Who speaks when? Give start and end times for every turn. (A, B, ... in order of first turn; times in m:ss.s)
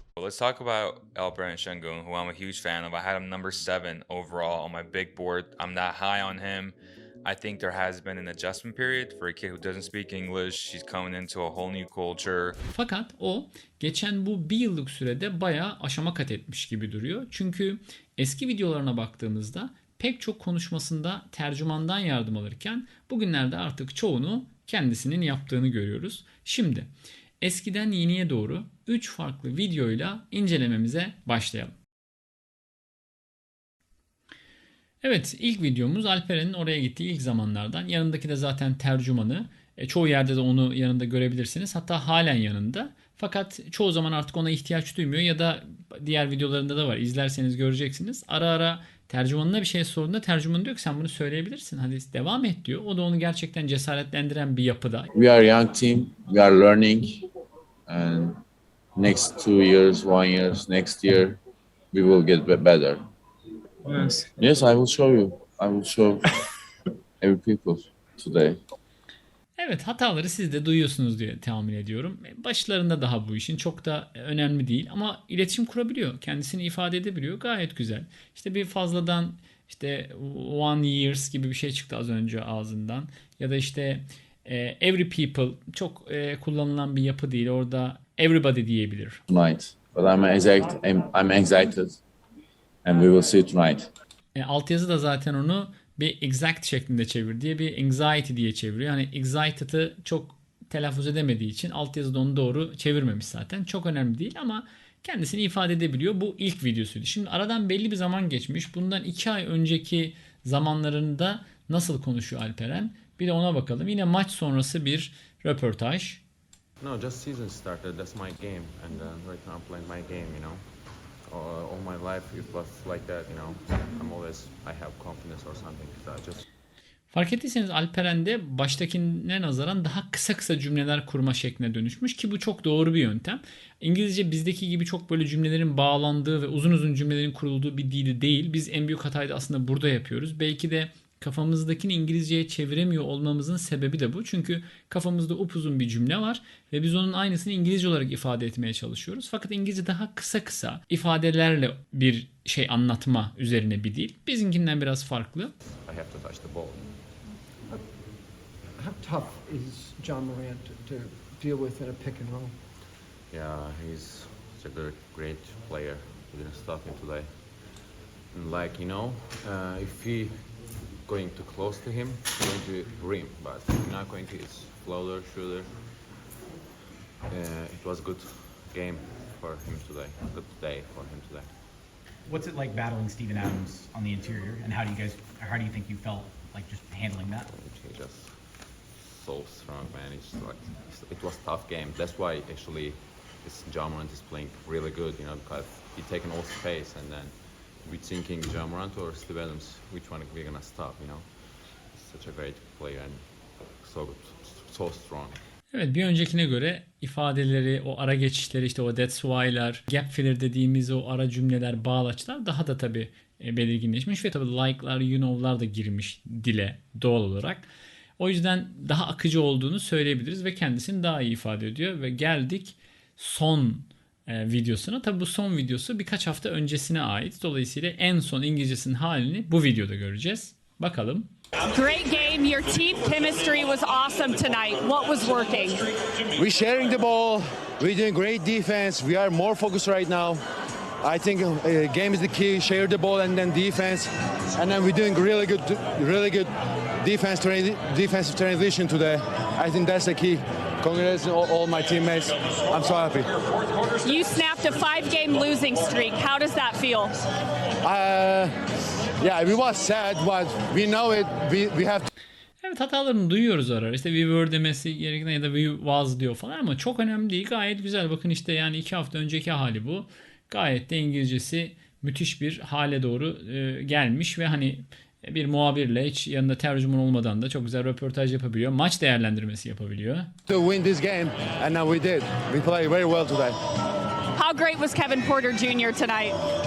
0:00.2-0:12.6 A
0:12.7-0:26.9 B
0:27.4-0:31.7 B
0:35.0-0:55.1 B
0:55.1-0:57.2 C
0:57.9-0:58.4 C
0:59.0-1:01.4 C
1:01.9-1:03.0 C
1:04.1-1:06.3 C
1:07.2-1:08.6 C
1:09.6-1:29.2 B
1:29.3-1:32.0 C
1:32.8-1:33.9 C
1:34.4-1:56.2 B
1:56.8-2:00.6 D
2:01.3-2:06.4 D
2:07.1-2:35.5 B
2:35.8-2:37.0 D
2:38.8-2:42.6 E
2:43.3-2:47.3 D
2:48.3-2:50.5 D
2:51.0-2:55.7 D
2:57.3-3:01.5 D
3:02.3-3:07.4 F
3:07.5-3:08.4 D
3:09.0-3:21.3 D
3:21.9-3:23.2 D
3:23.8-3:25.4 D
3:25.7-3:37.7 B
3:38.2-3:51.3 B
3:51.7-3:55.9 G
3:56.4-4:00.4 H
4:01.0-4:06.5 H
4:07.0-4:13.3 H
4:14.0-4:17.2 G
4:17.8-4:18.5 H
4:19.2-4:22.1 H
4:22.6-4:40.3 B
4:40.5-4:43.6 H
4:44.4-4:46.4 G